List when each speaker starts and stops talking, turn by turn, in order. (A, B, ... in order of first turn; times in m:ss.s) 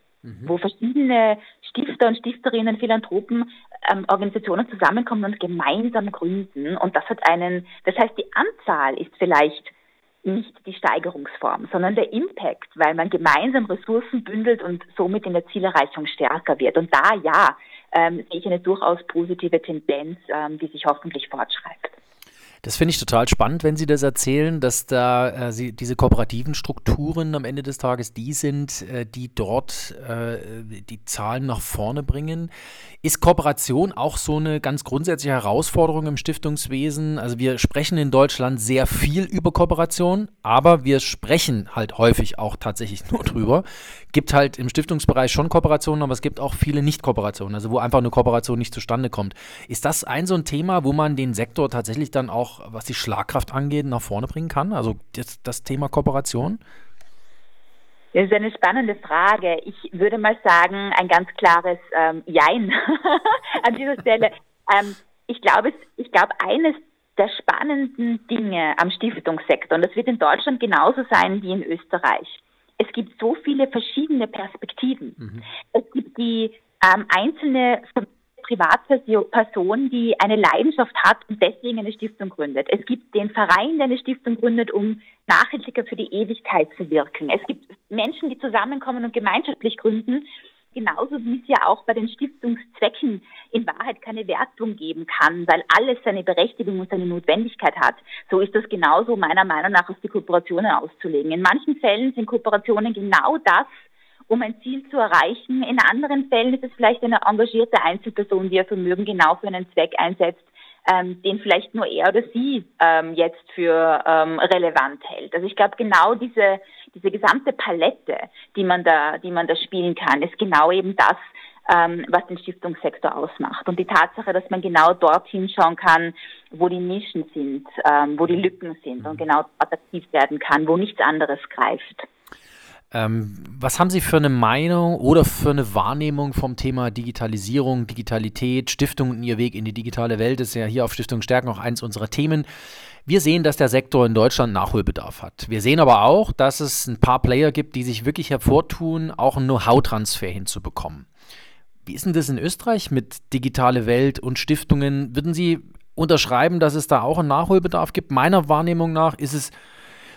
0:00.2-0:00.6 A
0:00.4-0:21.9 B
0:22.6-0:32.5 A
0:33.0-0:56.6 A
0:58.1-1:15.2 B
1:15.2-1:15.5 A
1:15.7-1:43.7 B
1:44.3-2:12.1 B
2:12.9-2:22.5 A
2:23.1-2:31.1 A
2:31.8-2:39.6 A